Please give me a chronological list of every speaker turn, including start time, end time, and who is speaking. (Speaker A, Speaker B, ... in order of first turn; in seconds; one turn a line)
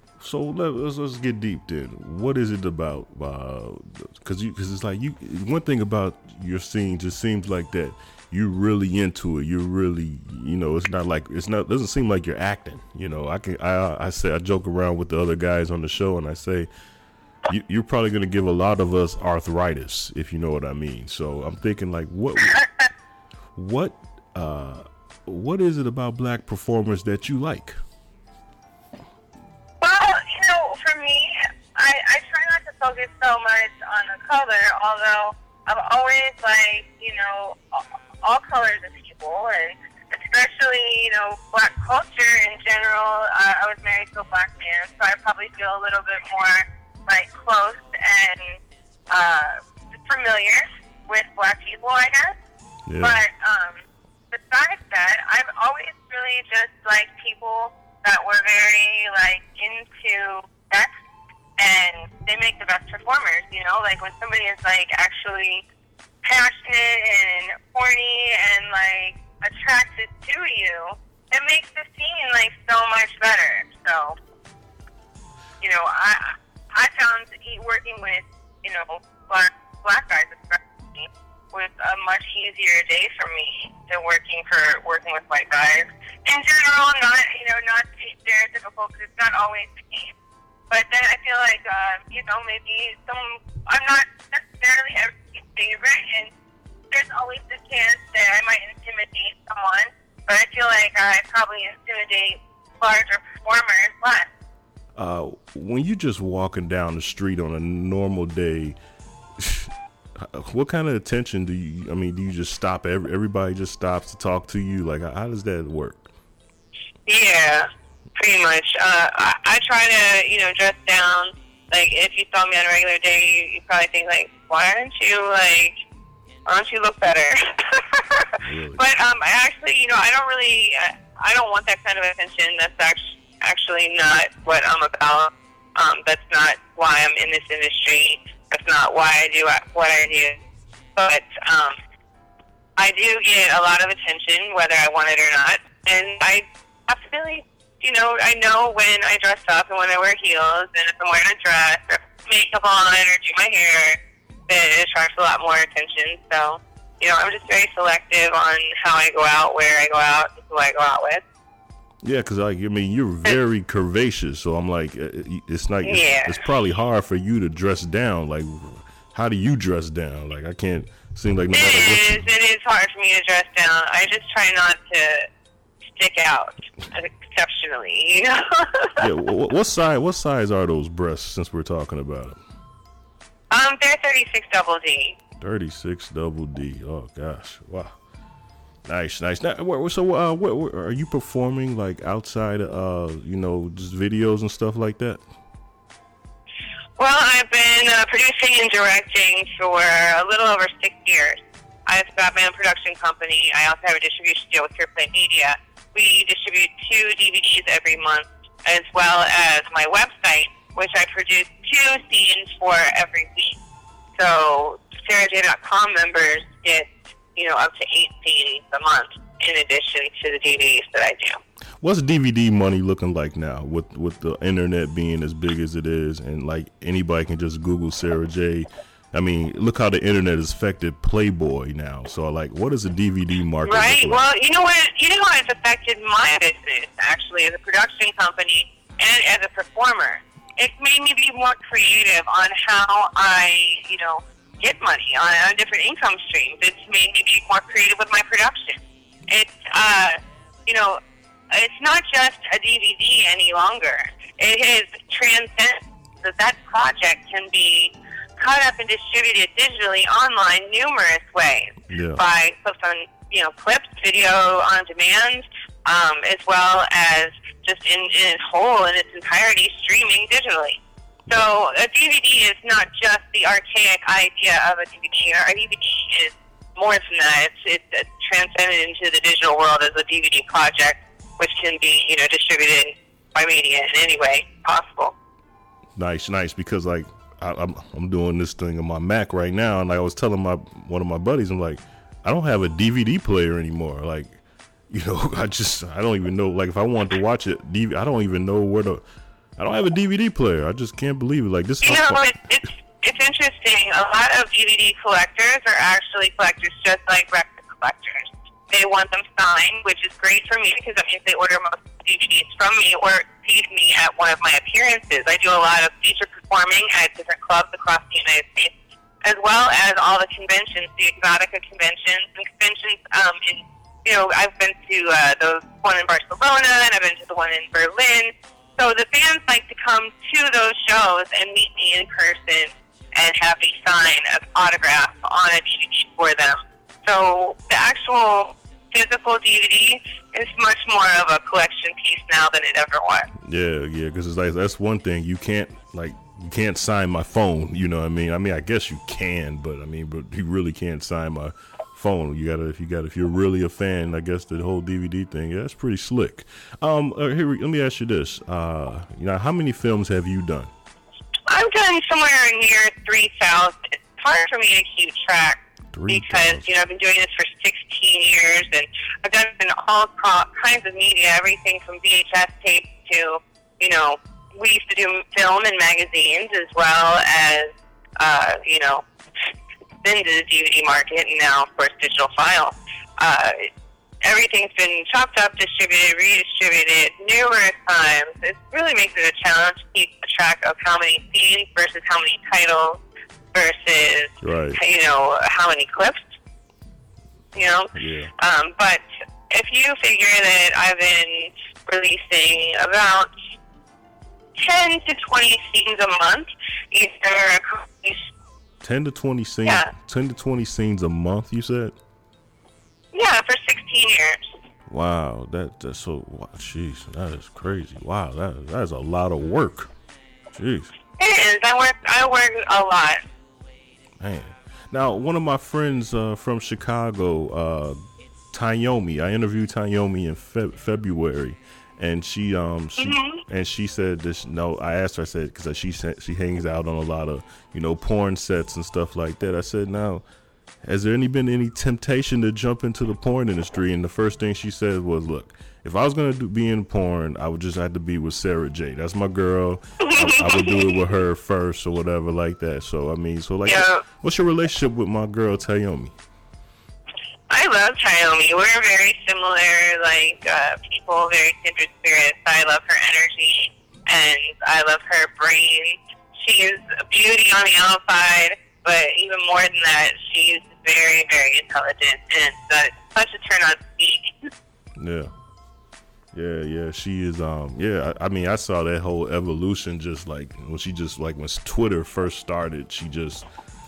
Speaker A: 0.2-16.7
Speaker A: 17.5-22.6
Speaker A: 23.6-27.8
Speaker B: 29.8-48.6
Speaker B: 49.1-52.4
Speaker A: 52.9-53.2
Speaker B: 53.0-53.8
Speaker B: 54.3-60.9
Speaker B: 61.6-65.6
Speaker B: 66.2-74.2
Speaker B: 75.6-90.1
Speaker B: 90.7-96.3
Speaker B: 96.9-104.3
Speaker A: 105.0-108.8
Speaker A: 109.4-116.1
Speaker B: 117.1-125.8
Speaker B: 126.5-140.4
Speaker A: 128.5-128.8
Speaker B: 141.0-141.8
Speaker B: 142.8-154.0
Speaker B: 154.5-161.2
Speaker A: 162.0-172.3
Speaker B: 165.8-166.4
Speaker B: 171.5-175.3
Speaker B: 176.0-179.1
Speaker A: 179.0-182.4
Speaker B: 183.5-185.2
Speaker A: 185.4-187.9
Speaker A: 188.9-195.2
Speaker B: 197.0-213.6
Speaker B: 214.2-221.4
Speaker A: 221.8-234.2
Speaker B: 233.7-251.0
Speaker B: 251.5-285.1
Speaker A: 261.9-262.2
Speaker A: 286.0-294.4
Speaker A: 294.9-299.0
Speaker A: 299.6-302.2
Speaker B: 301.8-343.3
Speaker A: 343.4-360.7
Speaker B: 361.5-379.0
Speaker A: 365.9-366.7
Speaker B: 380.0-383.6
Speaker B: 384.2-393.0
Speaker B: 393.5-396.2
Speaker A: 394.4-394.8
Speaker B: 397.6-403.3
Speaker A: 398.0-398.3
Speaker B: 404.6-408.3
Speaker A: 408.8-411.9
Speaker B: 409.6-409.9
Speaker B: 413.1-414.4
Speaker A: 414.9-419.9
Speaker A: 420.6-420.9
Speaker B: 421.2-423.2
Speaker A: 424.2-428.0
Speaker A: 428.5-440.2
Speaker B: 433.0-433.4
Speaker A: 440.8-456.1
Speaker B: 450.1-451.0
Speaker B: 453.7-454.0
Speaker B: 457.5-474.5
Speaker A: 475.0-475.3
Speaker A: 476.3-483.4